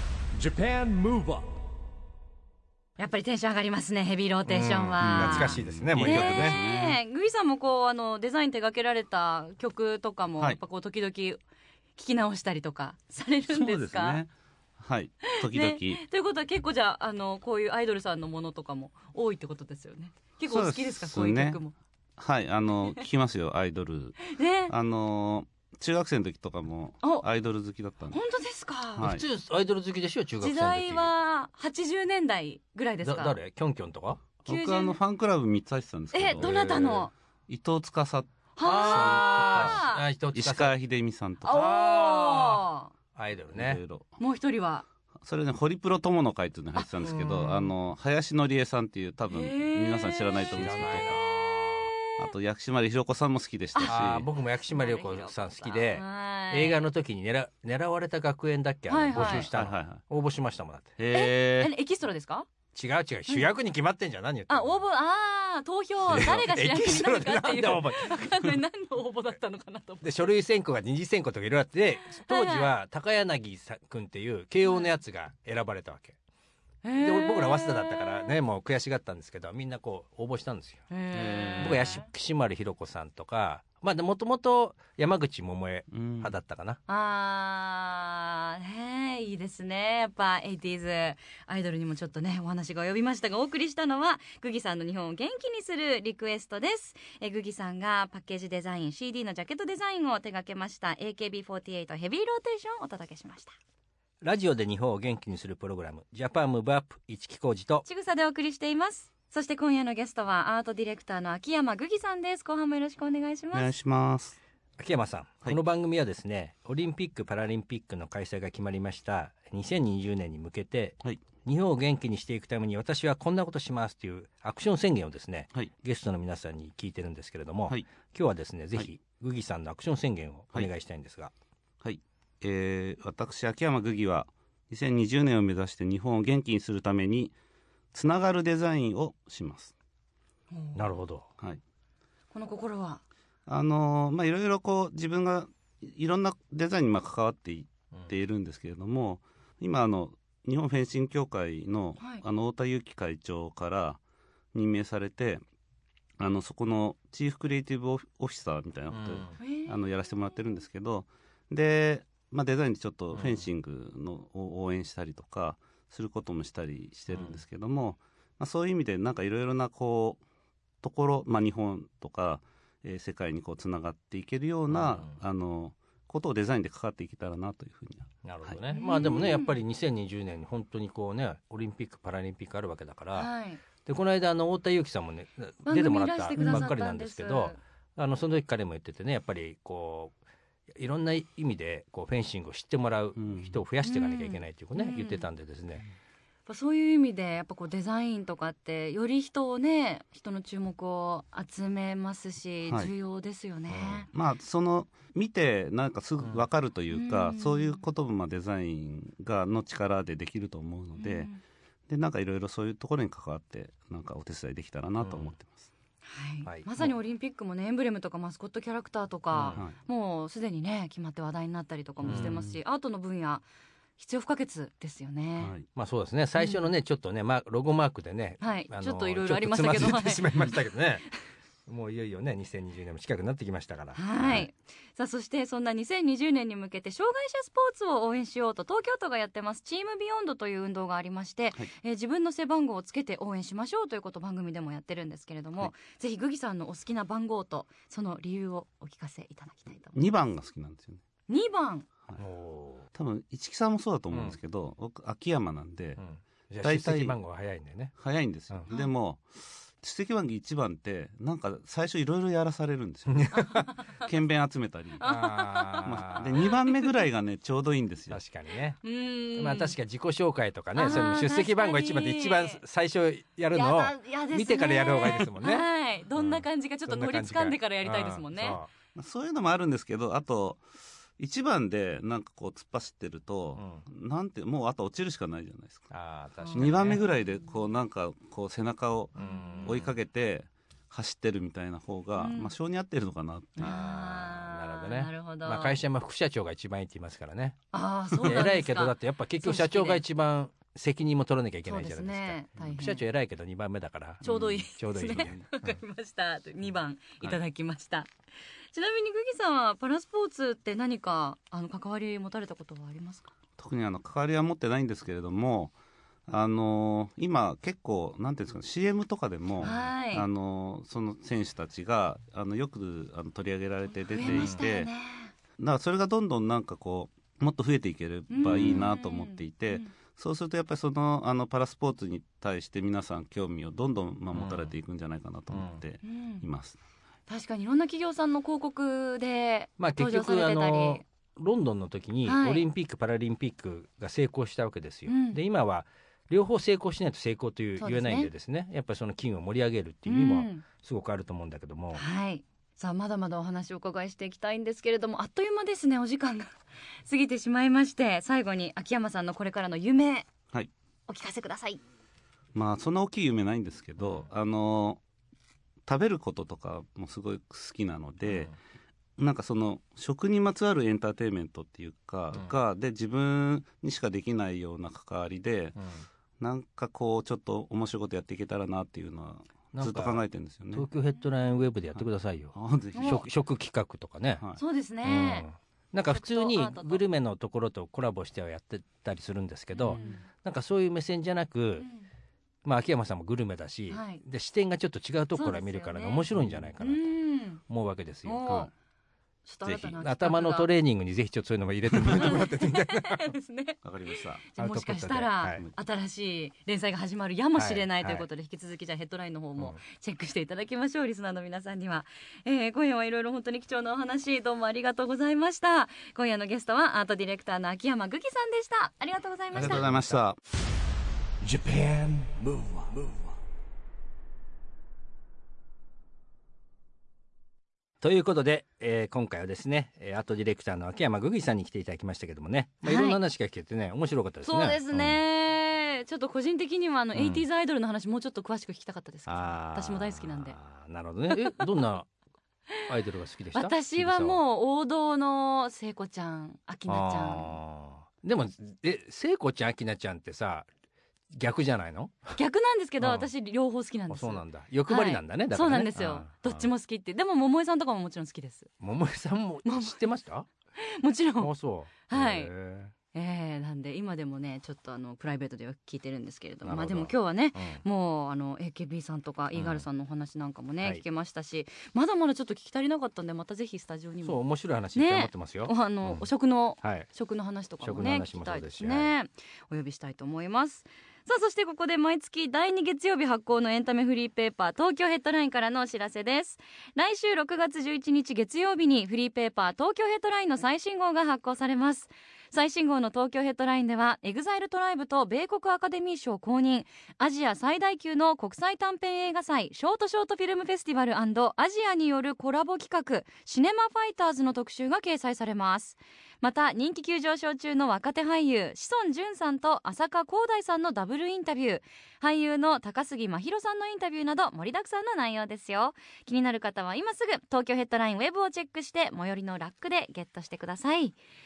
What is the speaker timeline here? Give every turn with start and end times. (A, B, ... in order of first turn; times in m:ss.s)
0:00.3-0:01.5 A
0:03.0-0:11.4 B
0:04.5-0:06.6 C
0:05.0-0:07.0 D
0:12.0-0:14.2 B
0:13.5-0:16.0 D
0:15.3-0:21.7 B
0:20.5-0:21.6 D
0:22.2-0:28.2 D
0:24.3-0:24.7 B
0:28.1-0:29.1 B
0:29.0-0:29.2 D
0:29.0-0:31.1 C
0:30.4-0:33.4 B
0:33.0-0:34.2 C
0:34.5-0:36.9 D
0:34.5-0:35.0 B
0:36.1-0:37.1 B
0:36.3-0:37.1 C
0:37.5-0:41.6 D
0:38.6-0:40.0 B
0:38.6-0:40.7 C
0:41.4-0:42.9 B
0:41.5-0:42.6 C
0:43.2-0:43.8 C
0:43.5-0:44.1 D
0:44.2-0:44.8 B
0:45.2-0:51.2 D
0:46.8-0:47.6 B
0:47.0-0:47.6 C
0:49.3-0:50.6 B
0:50.5-0:51.9 C
0:52.2-0:54.3 D
0:53.8-0:56.8 B
0:53.8-1:00.9 C
0:58.9-0:59.5 B
0:59.2-1:00.0 D
1:01.0-1:01.7 D
1:01.1-1:02.5 B
1:02.7-1:04.8 C
1:04.5-1:10.3 B
1:06.1-1:08.6 C
1:10.0-1:16.2 C
1:12.2-1:12.7 B
1:14.7-1:14.9 B
1:16.8-1:18.4 B
1:17.0-1:20.8 C
1:20.9-1:22.1 B
1:21.1-1:21.9 D
1:21.6-1:26.8 C
1:25.9-1:26.4 D
1:26.9-1:43.5 B
1:44.2-1:47.8 C
1:47.8-1:53.7 B
1:53.5-1:54.4 D
1:54.8-2:11.3 C
2:11.8-2:17.4 D
2:17.9-2:19.7 D
2:20.5-2:20.9 B
2:20.8-2:21.3 C
2:22.3-2:23.0 B
2:23.5-2:34.0 D
2:34.5-2:35.4 D
2:36.2-2:50.2 D
2:38.9-2:39.4 C
2:39.4-2:39.8 B
2:43.1-2:43.4 C
2:47.1-2:47.4 C
2:50.8-2:58.8 D
2:54.7-2:55.2 C
2:58.2-3:03.3 C
2:58.7-2:59.6 B
3:03.2-3:03.6 B
3:03.8-3:10.1 C
3:05.7-3:07.6 B
3:10.7-3:15.8 C
3:13.2-3:13.6 D
3:13.8-3:15.3 B
3:16.5-3:24.1 B
3:23.7-3:24.0 C
3:24.1-3:31.3 D
3:26.9-3:27.8 B
3:31.0-3:31.4 B
3:31.9-3:35.7 D
3:35.0-3:35.3 C
3:36.0-3:43.5 B
3:36.4-3:36.9 C
3:39.3-3:39.6 C
3:42.0-3:42.6 D
3:42.0-3:42.4 C
3:44.0-3:45.5 B
3:45.4-3:45.7 D
3:45.7-3:51.1 C
3:46.4-3:46.6 B
3:48.4-3:50.6 B
3:51.7-3:54.0 C
3:54.0-4:10.0 B
3:54.2-3:54.5 D
4:10.0-4:11.0 D
4:11.3-4:11.9 B
4:12.2-4:12.9 C
4:12.9-4:16.0 D
4:14.1-4:14.4 C
4:16.0-4:18.0 C
4:16.6-4:17.2 D
4:18.0-4:23.4 D
4:23.1-4:23.7 C
4:23.4-4:23.7 B
4:24.0-4:25.0 D
4:25.0-4:27.0 B
4:25.0-4:26.4 C
4:25.8-4:28.2 D
4:28.1-4:28.8 C
4:28.8-4:29.8 B
4:29.4-4:38.7 C
4:30.8-4:32.6 B
4:33.5-4:38.6 B
4:39.0-4:40.6 D
4:41.2-4:45.9 D
4:43.6-4:43.9 C
4:45.9-4:47.0 C
4:46.4-4:46.7 B
4:46.5-4:53.7 D
4:49.2-4:49.9 C
4:49.2-4:49.8 B
4:52.2-4:52.5 B
4:53.6-4:55.8 B
4:53.6-4:57.6 C
4:57.7-5:00.0 B
4:58.2-5:05.8 C
5:01.7-5:03.0 B
5:04.2-5:05.4 D
5:04.2-5:08.1 B
5:08.7-5:13.3 B
5:13.6-5:15.7 D
5:16.3-5:24.9 D
5:19.6-5:19.9 C
5:19.6-5:20.3 B
5:24.1-5:25.3 B
5:24.2-5:24.6 C
5:25.6-5:36.8 D
5:28.3-5:29.9 B
5:34.3-5:34.7 C
5:35.5-5:35.8 C
5:36.0-5:36.4 B
5:37.3-5:41.1 B
5:39.8-5:52.0 C
5:42.3-5:42.7 B
5:45.1-5:45.4 B
5:47.8-5:48.3 B
5:50.1-5:50.6 B
5:51.9-5:56.6 B
5:57.1-6:00.3 B
6:01.1-6:01.8 B
6:02.6-6:05.0 D
6:04.0-6:04.3 C
6:05.9-6:08.5 D
6:08.3-6:08.6 C
6:09.2-6:15.8 D
6:15.8-6:16.1 C
6:16.4-6:20.9 D
6:19.7-6:24.4 C
6:22.0-6:23.2 D
6:22.9-6:23.2 B
6:24.6-6:25.5 B
6:25.0-6:31.9 C
6:26.1-6:27.0 B
6:29.8-6:30.3 B
6:31.8-6:32.1 B
6:32.6-6:37.1 C
6:33.9-6:34.2 B
6:35.4-6:37.6 B
6:37.7-6:38.7 C
6:38.2-6:38.7 B
6:39.5-6:40.7 B
6:39.6-6:39.9 D
6:39.7-6:43.3 C
6:42.0-7:00.0 B
6:43.8-6:44.4 D
6:44.6-6:45.6 C
6:47.6-6:48.2 C
6:59.5-7:00.4 D
6:59.6-7:00.2 C
7:01.4-7:03.4 A
7:08.0-7:15.2 C
7:12.8-7:13.2 B
7:14.4-7:20.6 B
7:17.2-7:17.4 C
7:19.3-7:22.1 C
7:22.9-7:24.4 C
7:23.6-7:27.6 B
7:26.9-7:30.7 C
7:31.3-7:32.4 C
7:32.4-7:38.7 B
7:33.0-7:33.3 C
7:34.1-7:36.7 C
7:38.8-7:40.5 C
7:39.6-7:40.0 B
7:40.8-7:41.5 B
7:41.4-7:42.9 C
7:42.0-7:42.5 B
7:43.1-7:54.4 B
7:46.6-7:47.8 C
7:49.5-7:49.9 C
7:54.2-7:56.3 C
7:55.0-8:41.2 B
7:56.8-7:57.1 C
7:57.8-7:59.1 C